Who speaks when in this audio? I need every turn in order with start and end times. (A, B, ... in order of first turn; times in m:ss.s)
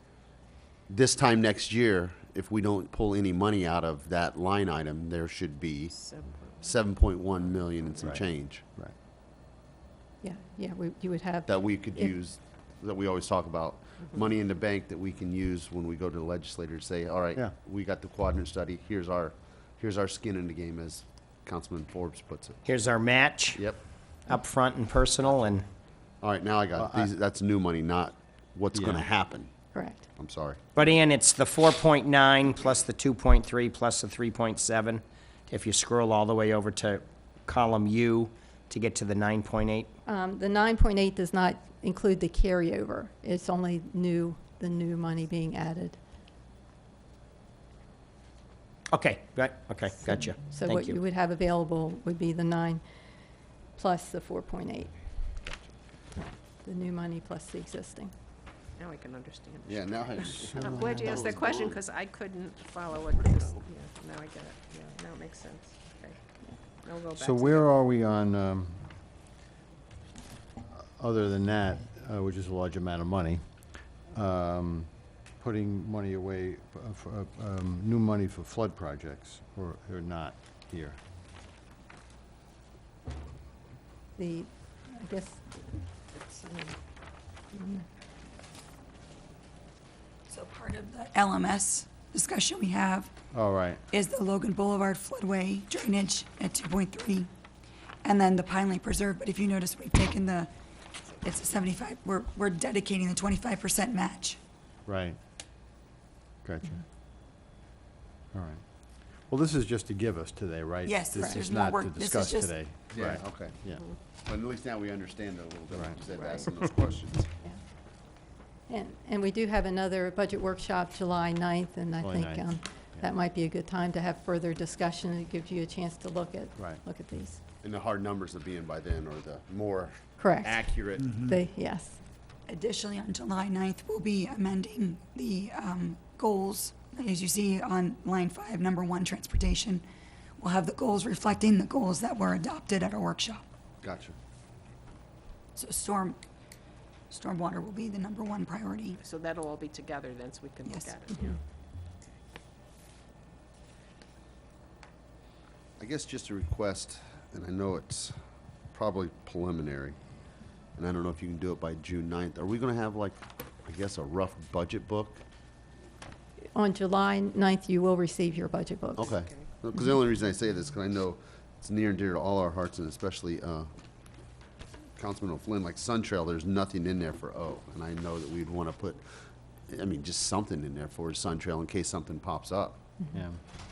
0:00.9-0:05.9 A
0:05.9-0:08.2 B
0:06.6-0:08.6 A
0:08.0-0:08.9 C
0:10.2-0:12.1 D
0:11.5-0:22.6 A
0:22.6-0:23.7 E
0:23.5-0:23.8 A
0:24.3-0:25.6 E
0:26.2-0:29.5 A
0:26.8-0:27.1 C
0:28.7-0:29.0 C
0:29.7-0:30.0 D
0:30.2-0:30.6 A
0:30.7-0:39.9 E
0:40.0-0:46.0 D
0:48.9-0:51.0 E
0:50.3-0:52.8 D
0:53.8-0:54.9 D
0:56.6-0:58.1 D
0:58.8-1:06.2 B
0:59.6-1:01.8 A
1:00.5-1:01.0 C
1:06.8-1:07.7 B
1:07.1-1:08.8 C
1:10.7-1:13.4 C
1:14.1-1:21.0 C
1:24.2-1:25.5 D
1:26.2-1:26.7 D
1:27.5-1:27.8 D
1:30.3-1:33.1 F
1:33.3-1:33.8 C
1:33.9-1:37.3 F
1:38.0-1:40.5 F
1:41.2-1:44.4 F
1:44.8-1:45.2 C
1:46.4-1:46.8 C
1:48.3-1:48.6 C
1:49.3-1:53.8 C
1:50.8-1:52.5 F
1:52.9-1:53.6 A
1:54.2-1:57.3 A
1:55.7-1:56.0 C
1:58.7-2:07.4 D
2:02.0-2:02.5 C
2:07.6-2:11.2 A
2:10.2-2:12.0 D
2:12.5-2:19.8 F
2:20.4-2:23.4 F
2:23.8-2:24.2 A
2:25.5-2:26.2 F
2:27.1-2:29.0 F
2:29.0-2:31.4 B
2:30.6-2:31.0 F
2:35.8-2:38.1 A
2:38.7-2:40.0 A
2:40.8-2:45.2 A
2:46.5-2:49.2 D
2:49.0-2:53.7 A
2:49.1-2:49.5 B
2:55.0-2:59.0 A
2:59.7-3:02.8 A
3:03.1-3:03.4 C